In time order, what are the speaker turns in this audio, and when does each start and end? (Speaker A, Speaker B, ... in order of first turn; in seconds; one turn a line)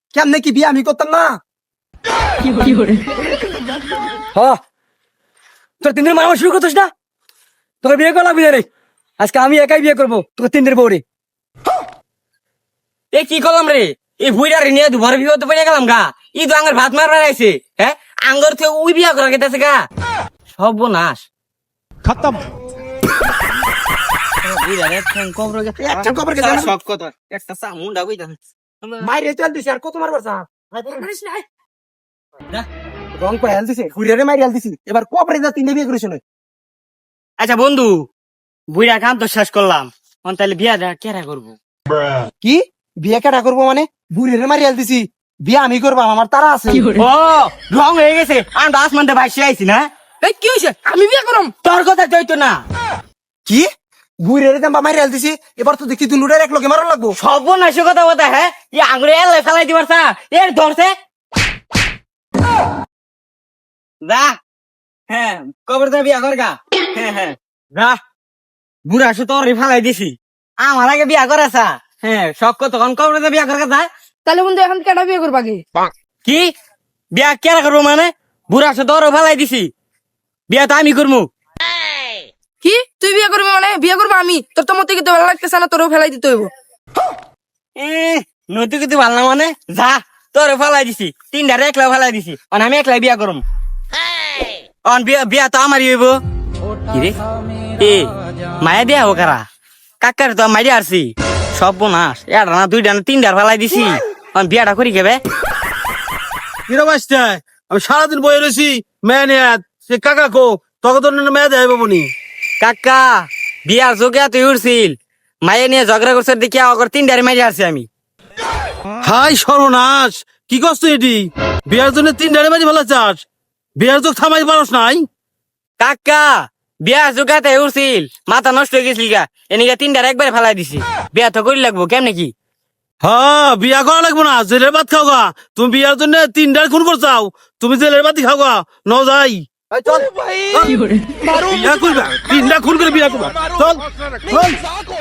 Speaker A: 0.1-1.4
Speaker B: 2.5-2.9
Speaker C: 5.8-6.9
Speaker C: 7.8-8.7
Speaker C: 9.2-11.0
Speaker D: 13.1-19.9
Speaker D: 20.5-21.3
Speaker D: 24.4-29.1
Speaker A: 25.8-26.7
Speaker A: 29.0-31.0
Speaker D: 31.0-31.4
Speaker A: 33.2-36.2
Speaker D: 37.4-38.1
Speaker D: 38.7-41.6
Speaker A: 42.4-46.9
Speaker D: 46.9-49.9
Speaker B: 50.2-51.5
Speaker D: 51.6-52.6
Speaker A: 54.2-57.1
Speaker D: 57.2-60.9
Speaker D: 64.0-64.3
Speaker D: 65.1-68.0
Speaker D: 68.9-73.9
Speaker B: 74.2-75.6
Speaker D: 76.2-76.5
Speaker D: 77.1-79.7
Speaker D: 80.5-81.3
Speaker B: 82.6-86.5
Speaker D: 87.8-93.4
Speaker D: 94.8-96.2
Speaker D: 96.9-97.2
Speaker D: 97.8-98.1
Speaker D: 98.6-99.4
Speaker D: 100.0-105.2
Speaker E: 106.7-112.1
Speaker D: 112.6-117.9
Speaker E: 119.0-123.2
Speaker E: 123.8-125.0
Speaker D: 125.8-132.3
Speaker E: 133.0-144.6